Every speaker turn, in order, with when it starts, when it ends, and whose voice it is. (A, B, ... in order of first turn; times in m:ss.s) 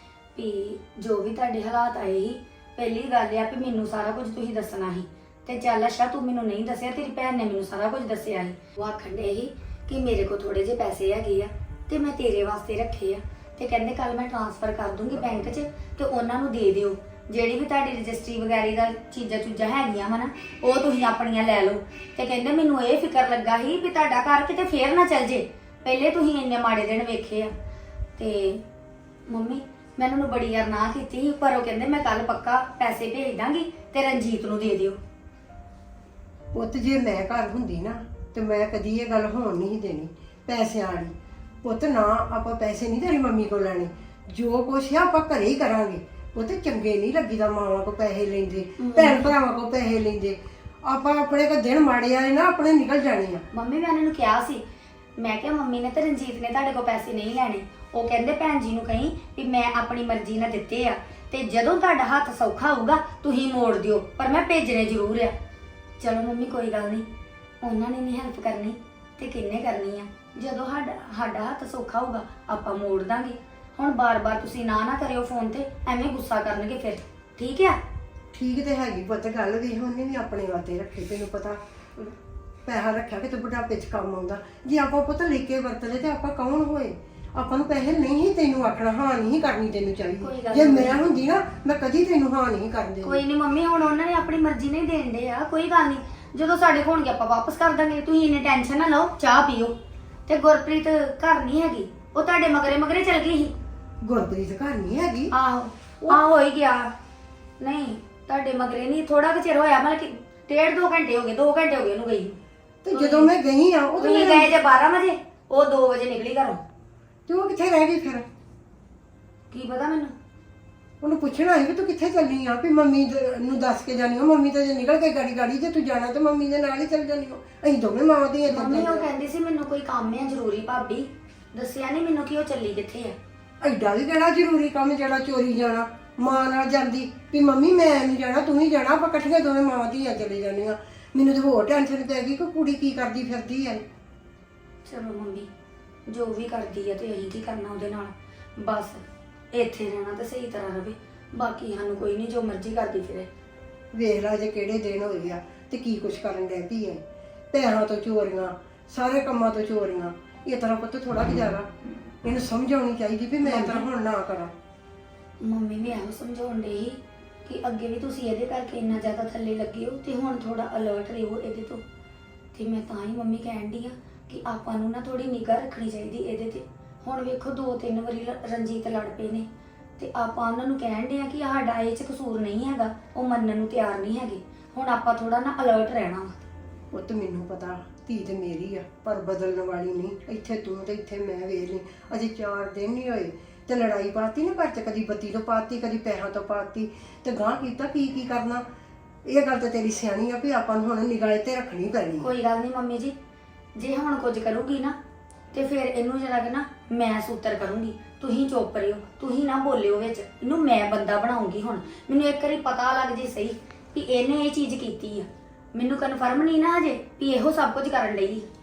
0:00.4-0:27.5 A
0:28.2-0:28.6 A
0:29.3-0:35.0 A
0:36.5-0:53.4 B
0:48.8-0:49.3 A
0:53.5-0:54.6 A
0:55.2-1:05.3 A
1:06.0-1:07.1 A
1:07.6-1:17.8 A
1:18.3-1:22.1 B
1:22.6-1:33.2 B
1:30.2-1:31.0 A
1:33.0-1:39.8 A
1:40.3-1:43.5 A
1:44.0-1:45.3 B
1:45.3-1:46.9 A
1:47.6-1:52.4 A
1:52.8-1:54.5 B
1:52.9-1:53.3 A
1:54.0-1:56.6 A
1:57.3-1:58.3 B
1:59.5-2:00.1 A
2:01.0-2:09.1 B
2:08.5-2:13.2 A
2:13.6-2:23.8 B
2:24.9-2:25.5 A
2:26.1-2:33.3 A
2:33.9-2:41.7 B
2:42.2-2:44.5 B
2:43.4-2:43.9 A
2:45.4-2:51.8 A
2:52.5-2:59.5 A
3:00.0-3:06.3 A
3:06.9-3:18.6 B
3:19.3-3:22.3 B
3:22.2-3:23.2 A
3:23.8-3:25.0 A
3:25.5-3:38.5 A